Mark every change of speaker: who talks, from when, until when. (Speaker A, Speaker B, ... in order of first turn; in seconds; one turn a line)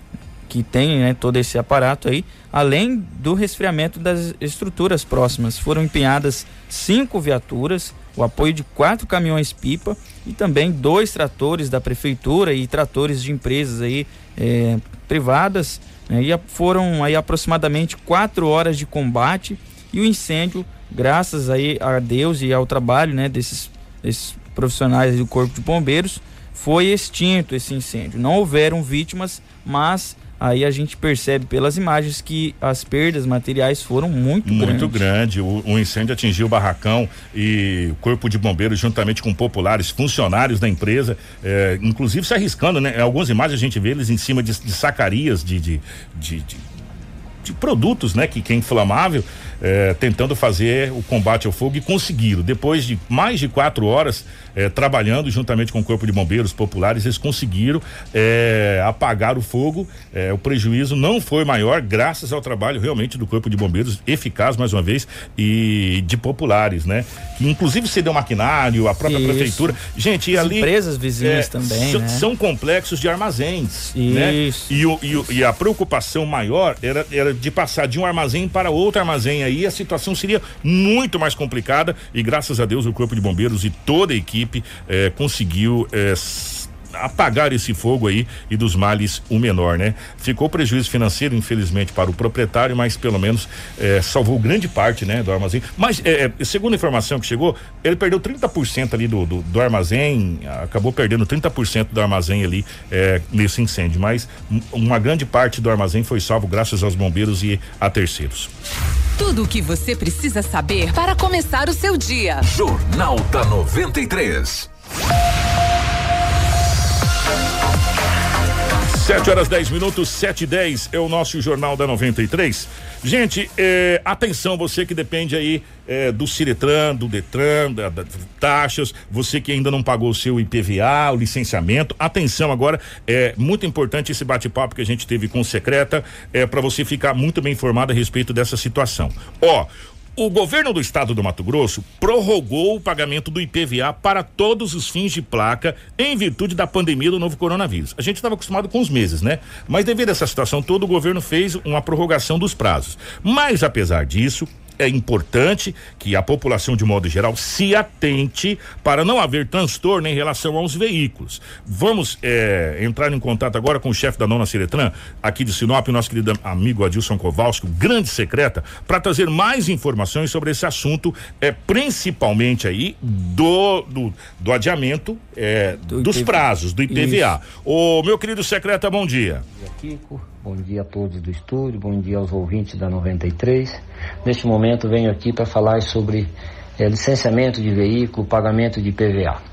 Speaker A: 0.5-35.0
Speaker B: 34.4-46.6
Speaker B: 47.4-108.5
Speaker A: 69.0-69.8
Speaker A: 70.3-72.3
Speaker A: 73.9-74.7
Speaker C: 109.2-112.4
Speaker D: 112.4-114.7
Speaker B: 118.9-179.4
Speaker A: 175.9-177.3
Speaker E: 179.6-189.4